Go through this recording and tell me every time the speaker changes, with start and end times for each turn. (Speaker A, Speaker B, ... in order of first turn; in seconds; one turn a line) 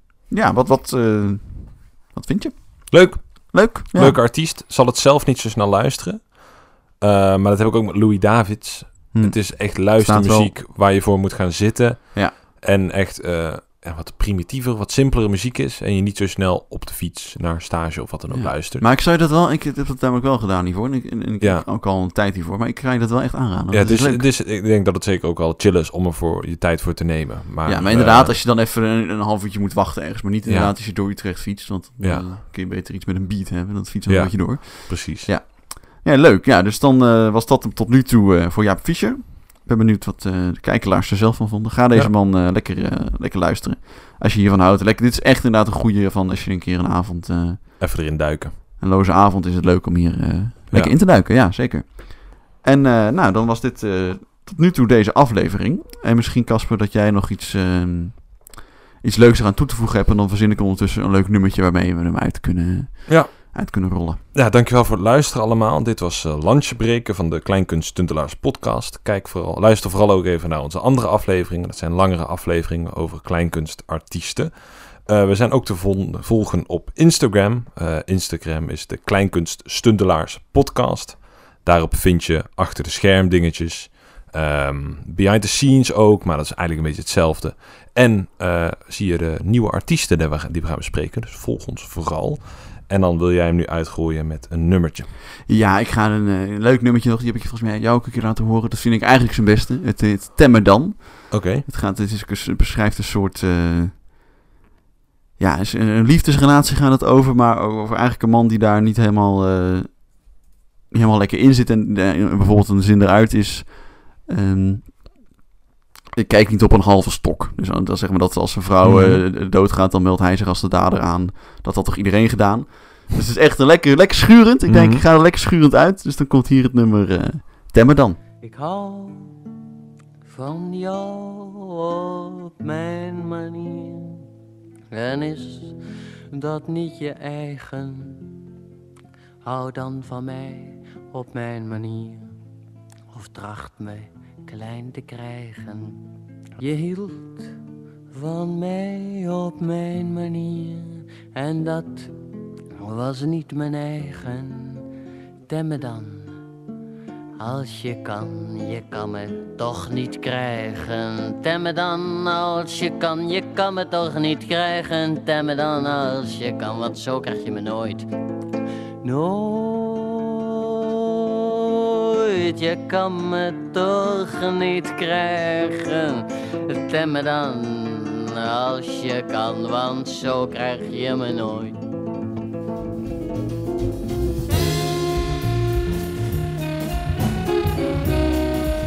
Speaker A: 0.3-4.2
Speaker B: 2.9-18.8
Speaker A: 9.1-10.5
Speaker A: 12.1-12.4
Speaker A: 18.3-24.2
Speaker B: 21.4-21.7
Speaker B: 23.7-28.4
Speaker A: 27.6-47.8
Speaker B: 30.5-30.7
Speaker B: 34.1-35.3
Speaker B: 47.8-48.6
Speaker A: 48.8-64.2
Speaker B: 64.3-95.1
Speaker A: 95.5-103.9
Speaker B: 101.3-101.7
Speaker A: 105.4-110.3
Speaker A: 110.9-115.1
Speaker A: 116.2-128.2
Speaker B: 118.8-119.2
Speaker B: 124.7-125.0
Speaker C: 128.4-129.4
Speaker C: 130.2-134.3
Speaker C: 134.9-135.8
Speaker C: 136.3-138.4
Speaker C: 139.4-142.3
Speaker C: 143.1-146.1
Speaker C: 146.6-147.6
Speaker C: 148.1-152.1
Speaker C: 152.8-154.9
Speaker C: 155.5-156.4
Speaker C: 157.4-168.1
Speaker C: 169.0-181.8